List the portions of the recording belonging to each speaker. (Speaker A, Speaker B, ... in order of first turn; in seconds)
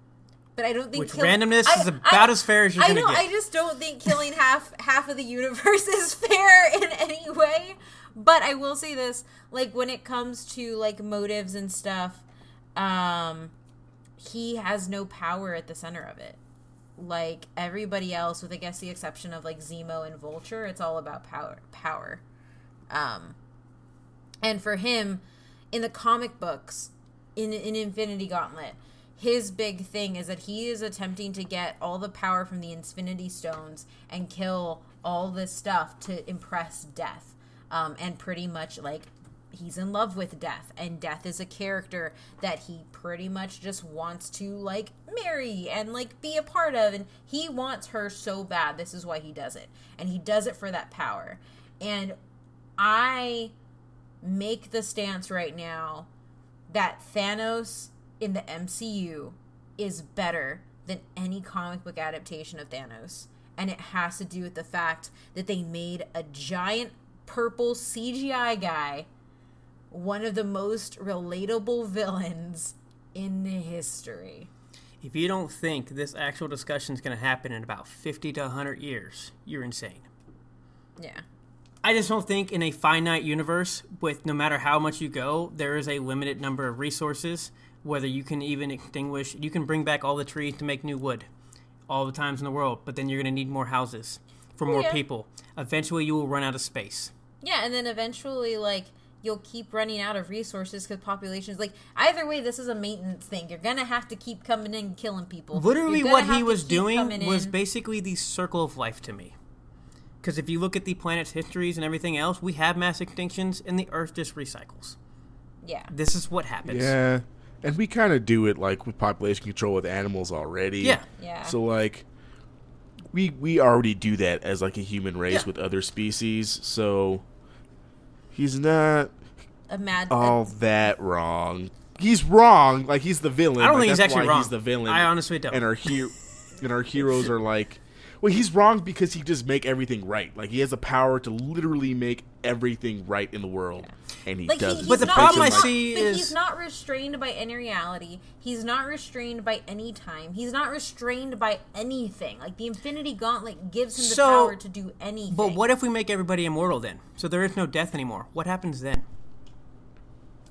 Speaker A: 0.6-12.2, 12.8-13.5, 14.2-16.4, 17.0-22.2, 22.9-23.4, 24.4-52.1, 52.8-53.5, 54.2-56.1, 56.7-69.1, 69.9-74.5, 81.0-81.2, 94.7-95.0, 97.4-107.5, 115.6-115.9, 121.2-121.5, 129.7-130.5, 144.4-155.6
Speaker B: 0.9-3.3, 75.0-80.1, 81.8-91.3, 91.9-97.1, 105.5-109.3, 110.2-115.0, 115.9-116.9, 133.6-135.7, 144.8-146.3, 153.9-154.6, 155.3-159.0
Speaker C: 116.7-122.0, 123.1-127.2, 128.3-129.1, 130.1-145.7